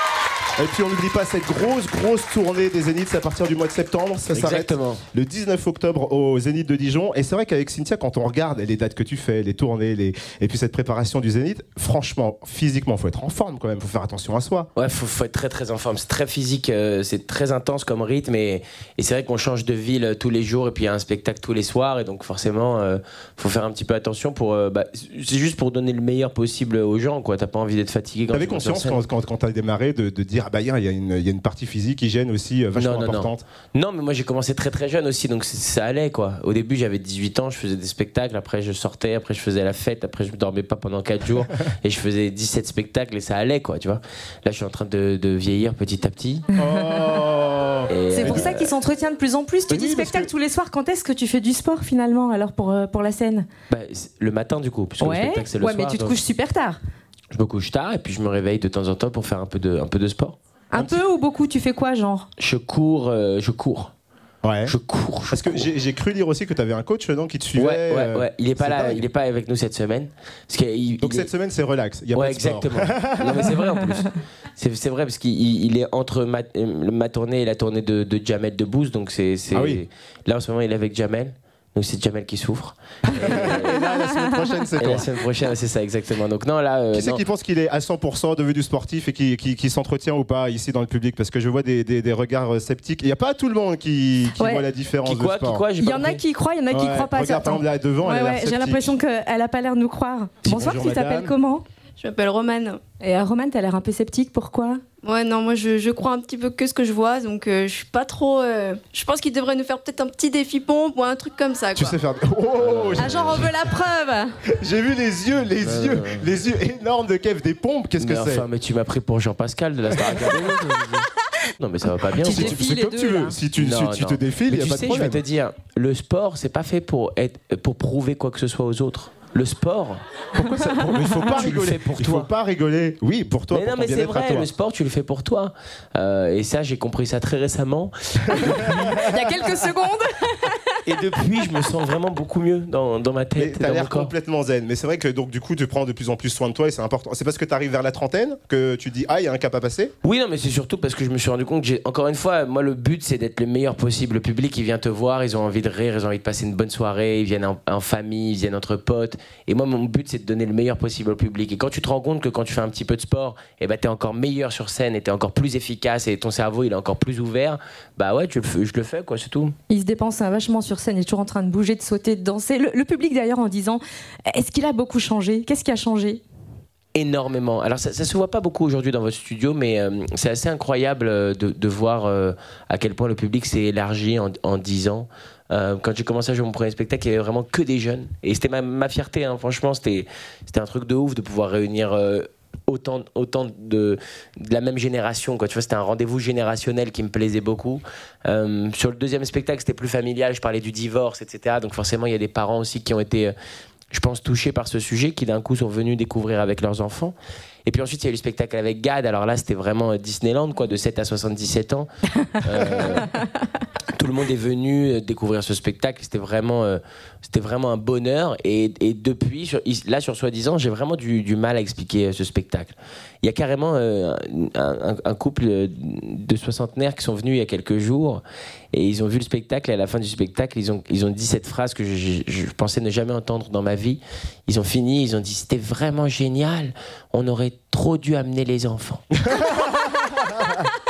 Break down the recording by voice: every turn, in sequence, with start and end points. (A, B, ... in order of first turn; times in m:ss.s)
0:00.6-0:14.7 A
0:04.3-0:05.0 B
0:14.8-0:29.0 B
0:28.3-0:33.4 A
0:32.8-0:46.5 B
0:46.6-0:48.5 A
0:46.7-0:47.1 C
0:47.9-0:48.7 B
0:48.1-0:53.5 C
0:49.7-0:50.3 A
0:53.7-0:56.2 B
0:55.0-0:56.8 C
0:57.3-1:00.4 B
1:00.7-1:02.3 C
1:02.4-1:03.9 B
1:04.4-1:04.7 A
1:04.6-1:05.7 B
1:05.3-1:09.0 A
1:07.6-1:11.3 B
1:11.0-1:13.6 A
1:12.1-1:23.9 B
1:19.5-1:19.8 A
1:23.1-1:25.1 A
1:23.9-1:24.8 C
1:24.8-1:27.2 B
1:26.9-1:35.7 A
1:34.4-1:34.7 C
1:35.0-1:36.2 B
1:35.8-1:41.6 C
1:36.7-1:38.9 A
1:40.4-1:41.3 A
1:42.0-1:42.8 D
1:42.9-1:44.8 C
1:45.0-1:52.0 D
1:51.8-1:53.5 A
1:52.6-1:53.5 B
1:53.0-1:54.4 C
1:54.5-1:58.5 A
1:55.6-1:56.3 B
1:58.0-2:02.7 B
2:02.2-2:03.4 C
2:02.2-2:05.2 A
2:03.6-2:10.0 B
2:10.3-2:14.5 A
2:11.1-2:12.3 B
2:13.5-2:19.1 B
2:18.9-2:20.8 C
2:20.9-2:24.1 B
2:23.4-2:29.9 A
2:30.0-2:49.5 B
2:49.7-2:56.2 C
2:56.9-3:23.3 B
3:23.9-3:27.2 B
3:27.7-3:33.2 B
3:33.9-3:59.1 B
3:59.2-4:00.5 A